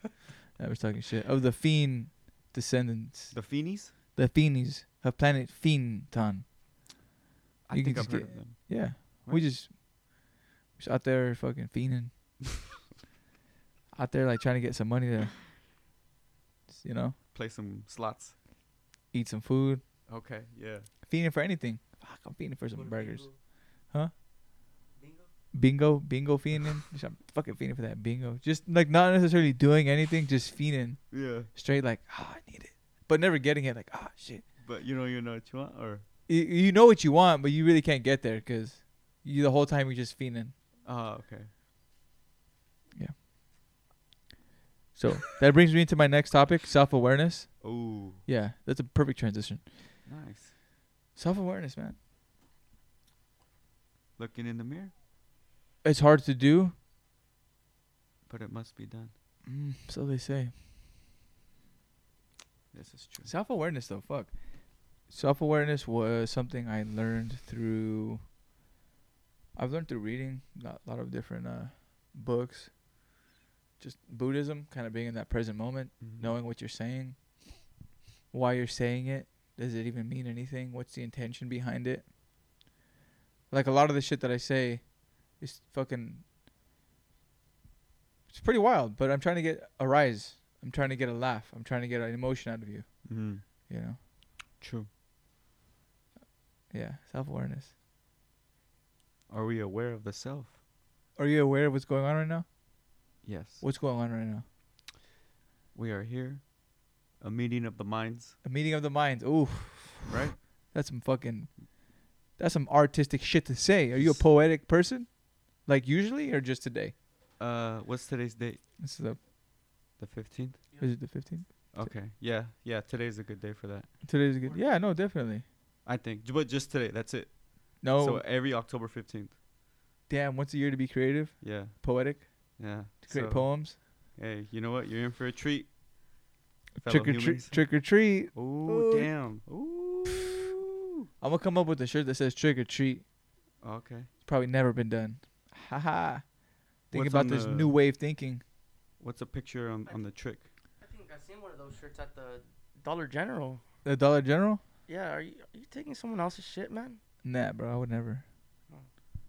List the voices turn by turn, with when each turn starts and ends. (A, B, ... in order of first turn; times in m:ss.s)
0:00.6-0:06.5 A
0:03.3-0:03.9 B
0:07.6-0:09.5 B
0:07.7-0:12.4 A
0:13.9-0:15.4 A
0:16.7-0:17.2 A
0:17.3-0:18.4 B
0:19.1-0:19.8 A
0:20.1-0:20.9 B
0:21.0-0:24.1 A
0:22.9-0:23.4 C
0:25.0-0:25.3 C
0:25.5-0:34.5 A
0:31.1-0:31.5 B
0:34.6-0:36.0 B
0:36.3-0:40.5 A
0:40.8-0:41.5 B
0:45.0-0:49.7 A
0:47.6-0:48.2 B
0:50.0-0:50.5 B
0:51.2-0:52.0 A
0:54.2-0:54.9 B
0:55.8-0:56.8 A
0:58.3-0:59.1 B
0:59.4-1:00.6 A
1:02.7-1:03.3 B
1:03.2-1:08.3 A
1:09.6-1:13.0 A
1:13.8-1:17.7 A
1:16.0-1:16.4 B
1:18.3-1:22.1 A
1:23.5-1:26.2 A
1:28.3-1:34.0 A
1:33.0-1:33.4 B
1:34.6-1:34.9 B
1:36.7-1:37.7 A
1:39.3-1:40.6 B
1:41.2-1:42.5 A
1:43.2-1:43.6 B
1:43.6-1:44.4 A
1:45.7-1:48.4 B
1:48.4-1:57.0 A
1:50.1-1:50.4 B
1:53.9-1:54.2 B
1:57.4-1:58.6 B
1:58.8-1:59.2 A
2:00.0-2:01.2 B
2:00.8-2:01.9 A
2:01.7-2:04.0 B
2:04.0-2:05.4 A
2:05.8-2:09.4 B
2:07.8-2:08.2 A
2:10.1-2:13.8 A
2:11.4-2:15.8 B
2:16.8-2:19.1 A
2:16.8-2:20.6 B
2:21.2-2:23.1 A
2:23.6-2:24.1 B
2:24.2-2:28.4 A
2:26.9-2:27.8 B
2:29.0-2:30.5 B
2:30.8-2:33.6 C
2:33.8-2:34.6 A
2:34.9-2:37.0 C
2:37.2-2:38.2 A